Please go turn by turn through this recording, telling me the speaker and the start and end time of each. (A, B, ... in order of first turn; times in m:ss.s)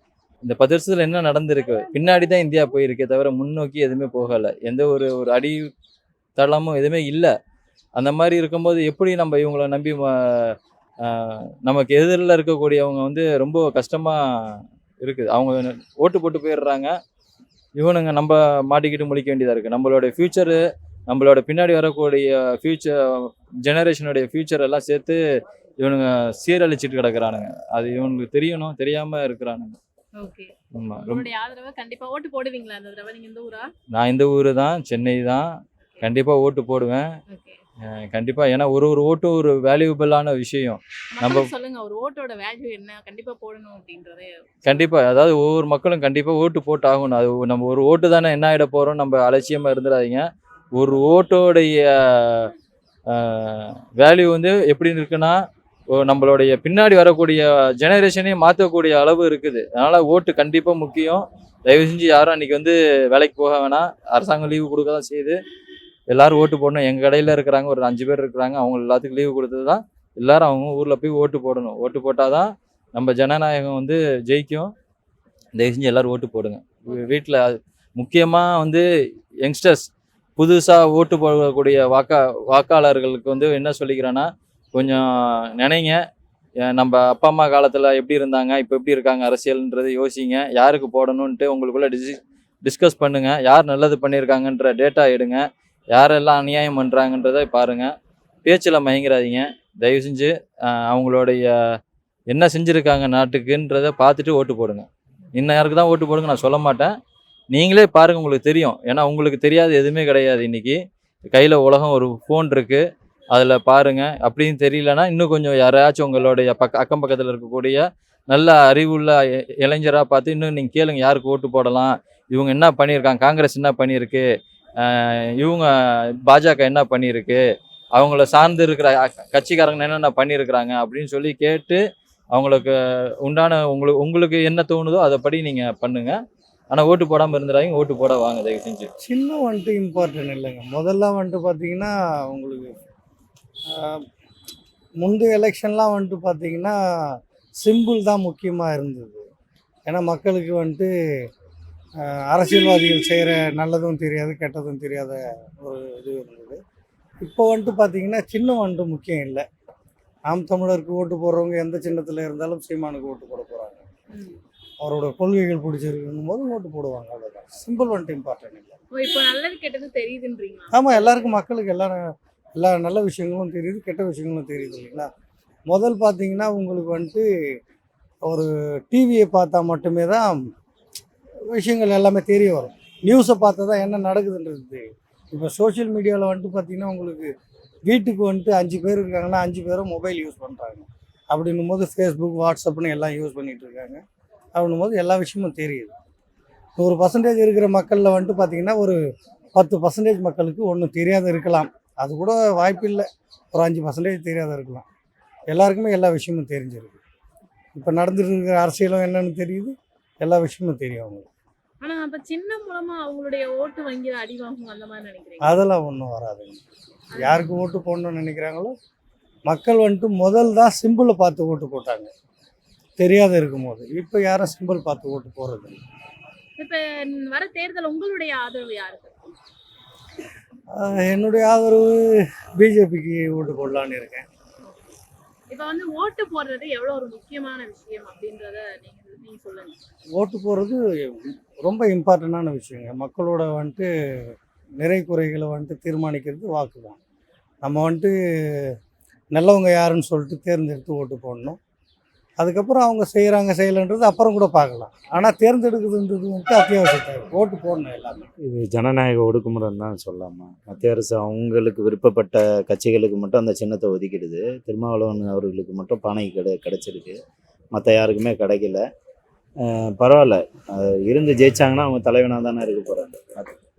0:00.4-0:05.7 A
0:01.6-0:02.8 B
0:06.4-0:07.3 A
0:08.0-0:16.9 A
0:17.8-0:25.2 A
0:25.8-0:29.8 A
0:30.2-0:33.7 B
0:30.8-0:31.2 A
0:33.9-0:37.1 A
0:37.3-0:37.6 B
0:38.1-0:41.5 A
0:41.1-0:44.4 B
0:44.6-0:52.5 A
0:53.1-0:55.4 A
0:55.9-1:05.4 A
1:06.1-1:14.7 A
1:15.6-1:18.8 A
1:19.4-1:26.0 A
1:26.7-1:37.9 A
1:38.4-1:41.5 A
1:42.3-1:46.9 A
1:47.5-1:50.8 A
1:51.3-2:04.3 A
2:04.8-2:07.4 A
2:08.0-2:11.8 A
2:12.3-2:16.2 A
2:16.7-2:18.9 A
2:19.0-2:22.8 C
2:23.7-2:24.0 C
2:25.0-2:29.3 C
2:29.9-2:30.9 C
2:32.0-2:36.6 C
2:37.2-2:39.4 C
2:40.3-2:43.9 C
2:44.1-2:44.4 B
2:44.8-2:48.8 C
2:48.9-2:51.3 B
2:50.7-2:52.0 C
2:52.6-2:55.1 C
2:55.7-2:57.3 C
2:58.2-3:00.4 C
3:01.5-3:07.3 C
3:07.8-3:14.0 C
3:14.5-3:15.9 C
3:16.8-3:19.0 C
3:19.5-3:24.8 C
3:25.5-3:27.0 C
3:27.8-3:31.3 C
3:31.8-3:35.6 B
3:35.4-3:36.6 C
3:37.1-3:37.5 B
3:37.2-3:38.7 C
3:39.4-3:42.1 C
3:43.0-3:45.8 C
3:46.6-3:49.2 B
3:50.7-3:51.9 C
3:52.6-3:54.3 C
3:55.5-3:59.8 B
4:00.2-4:03.9 C
4:04.8-4:07.0 C
4:07.6-4:08.2 C
4:09.3-4:11.6 C
4:12.4-4:18.3 C
4:18.4-4:27.2 D
4:27.8-4:28.8 D
4:29.6-4:33.6 D